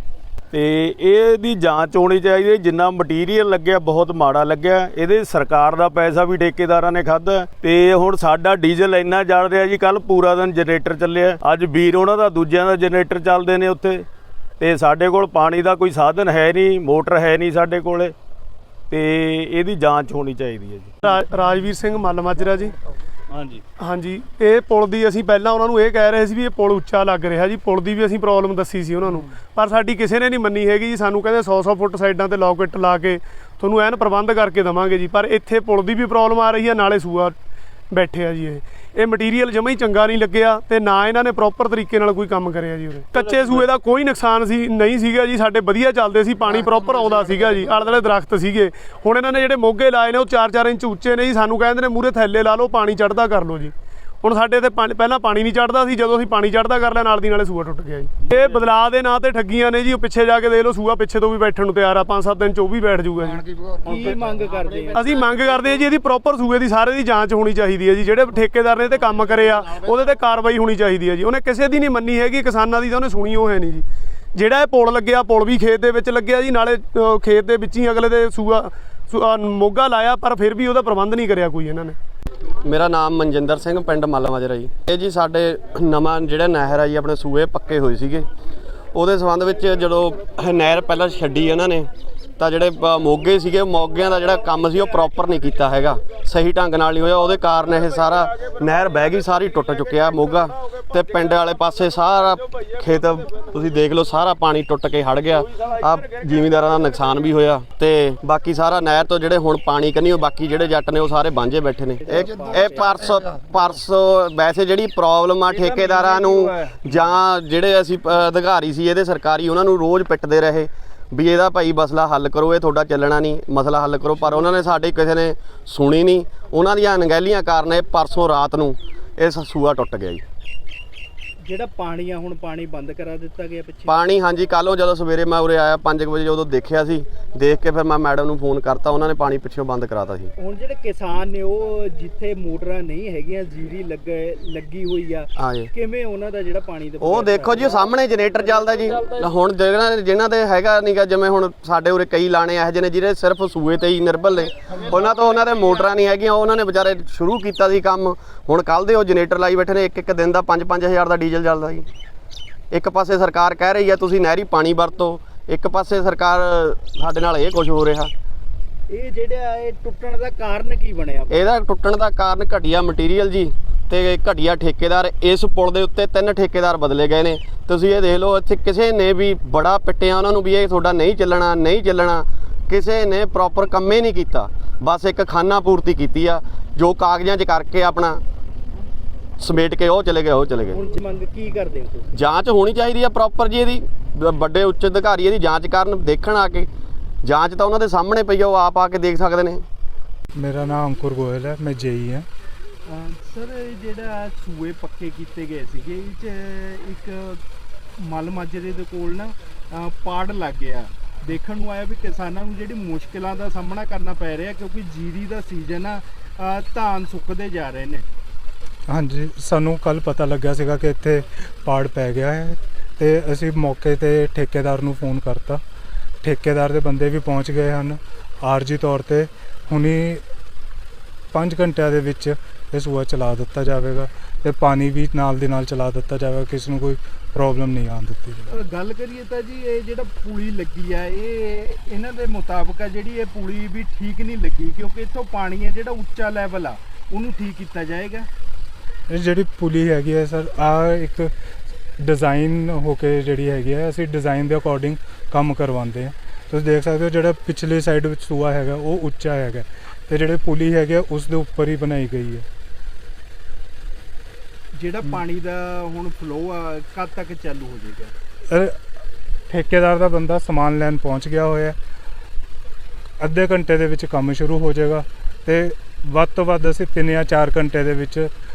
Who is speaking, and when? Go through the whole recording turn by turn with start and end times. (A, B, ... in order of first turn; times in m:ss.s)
0:00.5-0:14.1 A
0:14.6-0:18.2 A
0:18.9-0:20.9 A
0:21.0-0:22.7 B
0:23.3-0:23.6 A
0:23.8-0:37.4 B
0:37.9-1:03.4 B
1:03.8-1:05.1 C
1:04.9-1:22.0 B
1:22.6-1:28.3 D
1:28.9-2:10.2 D
1:52.0-1:53.2 C
1:55.5-1:57.1 C
2:11.4-2:14.0 C
2:13.9-2:20.3 D
2:20.4-2:27.8 C
2:25.4-2:25.7 D
2:27.0-2:41.9 D
2:42.7-2:48.1 D
2:48.9-2:51.5 C
2:51.3-3:08.2 D
3:09.4-3:10.8 D
3:10.7-3:12.1 C
3:12.1-3:16.7 D
3:17.2-3:19.6 D
3:20.3-3:22.3 E
3:22.9-3:27.4 C
3:28.0-3:38.1 C
3:38.9-3:45.6 E
3:46.2-3:50.2 E
3:51.3-3:58.6 E
3:58.5-4:08.3 C
4:09.1-4:11.3 E
4:12.0-4:22.5 E
4:24.7-4:28.1 C
4:28.5-4:28.8 E
4:29.5-4:31.8 E
4:33.2-4:38.3 E